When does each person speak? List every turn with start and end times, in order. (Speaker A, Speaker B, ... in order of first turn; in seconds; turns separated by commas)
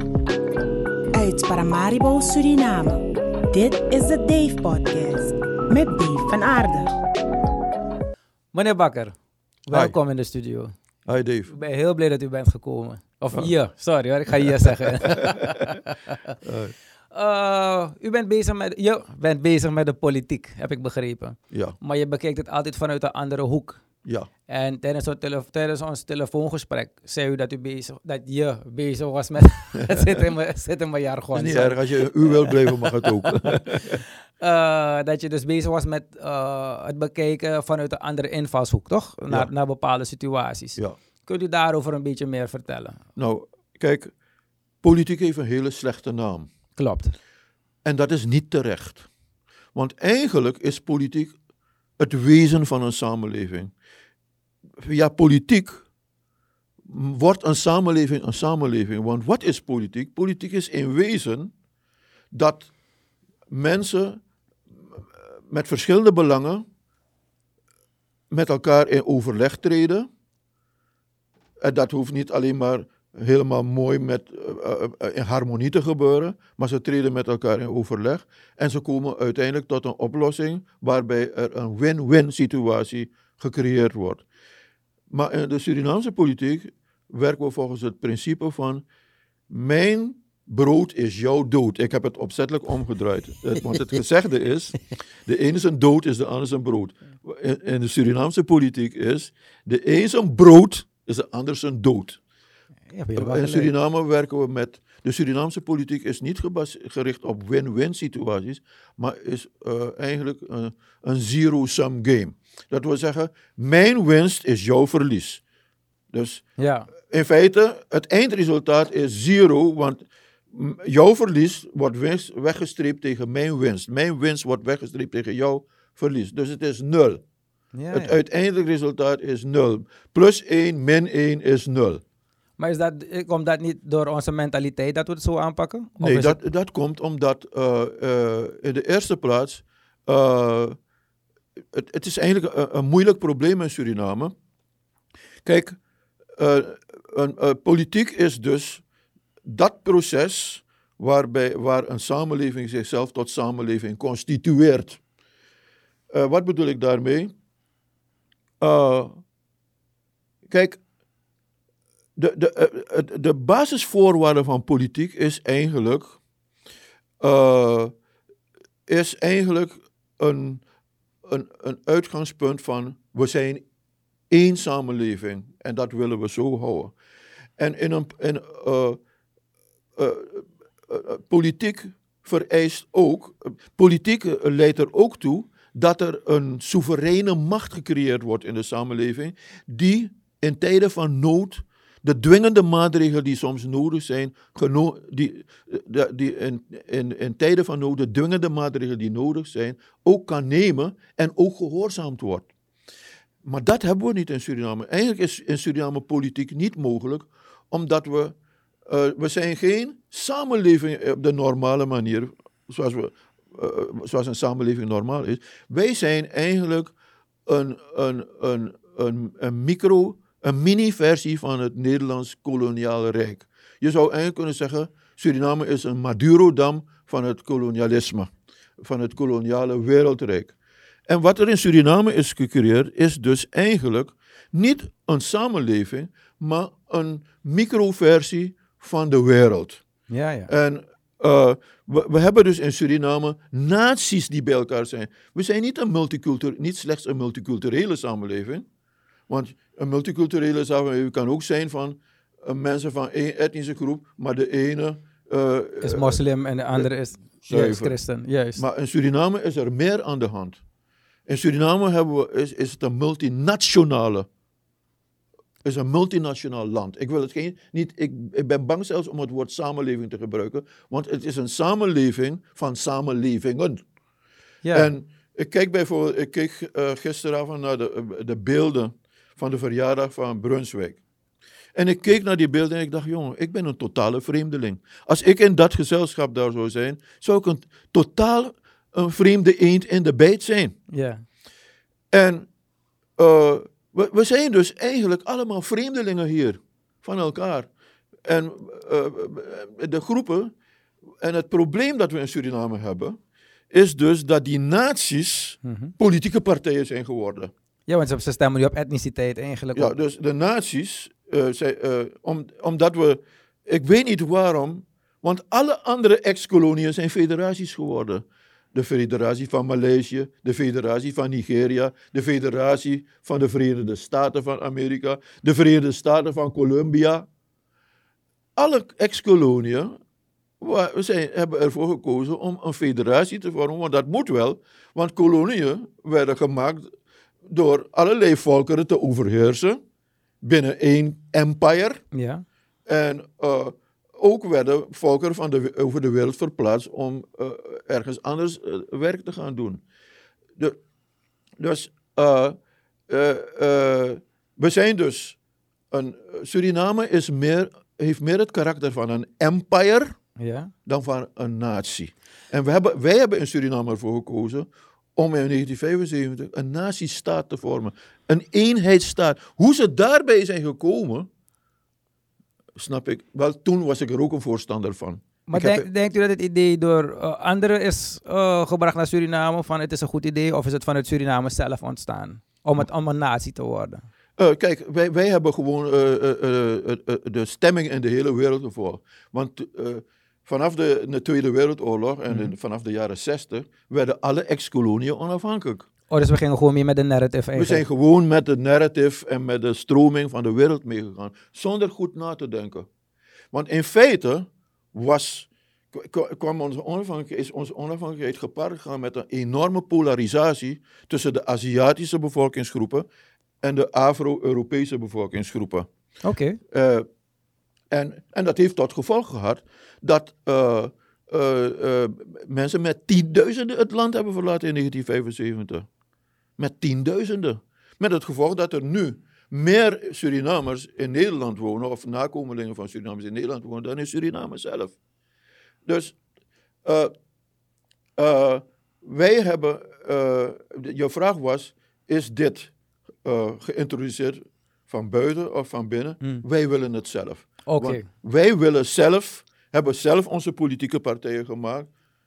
Speaker A: 1.1-6.9, Speaker B: 8.5-9.2, Speaker B: 9.7-10.7, Speaker C: 11.1-11.5, Speaker B: 11.5-16.3, Speaker C: 14.4-15.7, Speaker C: 16.4-16.8, Speaker B: 17.1-23.8, Speaker C: 21.5-21.8, Speaker B: 24.5-33.3, Speaker C: 29.8-30.2, Speaker C: 31.4-34.0, Speaker B: 34.4-43.0, Speaker C: 43.2-44.1, Speaker C: 44.8-46.5, Speaker B: 46.8-47.2, Speaker C: 47.8-49.1, Speaker C: 49.8-51.4, Speaker C: 52.0-53.7, Speaker C: 54.8-55.8, Speaker C: 56.9-61.5, Speaker C: 62.3-62.7, Speaker C: 63.5-64.2, Speaker C: 65.0-66.7, Speaker C: 68.3-70.1, Speaker C: 71.6-84.2, Speaker C: 85.1-88.8, Speaker C: 89.5-102.2, Speaker B: 102.9-103.7, Speaker C: 103.1-115.4, Speaker C: 116.1-116.4, Speaker B: 116.6-116.9, Speaker C: 117.0-127.2, Speaker B: 127.7-128.2, Speaker C: 127.9-132.0, Speaker B: 132.6-136.4, Speaker C: 136.0-140.8, Speaker C: 141.7-144.3, Speaker C: 145.4-145.8, Speaker C: 146.4-148.8, Speaker C: 149.4-155.0, Speaker C: 156.1-157.3, Speaker C: 158.6-159.1, Speaker C: 160.5-160.8, Speaker C: 162.2-166.2, Speaker C: 167.2-167.9, Speaker C: 168.9-170.6, Speaker C: 171.2-173.6, Speaker C: 174.3-176.9, Speaker C: 177.6-179.0, Speaker C: 180.0-202.5, Speaker C: 203.4-208.3, Speaker C: 208.9-216.9, Speaker C: 217.5-230.5, Speaker C: 231.1-239.8, Speaker B: 240.1-240.5, Speaker C: 240.5-248.7, Speaker C: 249.3-256.2, Speaker B: 255.8-258.6, Speaker C: 257.4-258.0, Speaker C: 258.6-260.6, Speaker C: 261.3-264.3, Speaker C: 265.6-273.8, Speaker B: 274.6-274.9, Speaker C: 274.7-281.0, Speaker C: 281.8-290.8, Speaker B: 290.9-291.2, Speaker C: 292.1-292.5, Speaker C: 293.2-297.7, Speaker C: 298.3-300.5, Speaker C: 301.2-303.2, Speaker C: 303.7-307.5, Speaker B: 305.6-305.9, Speaker B: 307.9-309.9, Speaker C: 309.8-327.3, Speaker C: 328.6-330.0, Speaker C: 330.6-336.9, Speaker C: 337.5-339.8, Speaker C: 340.4-342.0, Speaker B: 342.1-342.4, Speaker C: 342.9-349.8, Speaker C: 351.6-352.6, Speaker C: 353.1-355.4, Speaker C: 355.9-360.2, Speaker B: 360.4-360.7, Speaker C: 360.9-371.3, Speaker C: 372.8-375.9, Speaker B: 375.5-384.1, Speaker C: 384.4-395.9, Speaker B: 396.1-397.9, Speaker C: 397.6-402.9, Speaker C: 403.5-413.1, Speaker C: 413.6-415.9, Speaker B: 416.2-416.6, Speaker C: 416.7-417.1, Speaker C: 417.9-425.9, Speaker C: 426.6-435.0, Speaker C: 435.9-436.2, Speaker C: 436.8-437.1, Speaker C: 438.2-442.7, Speaker C: 443.2-451.9, Speaker B: 447.7-448.1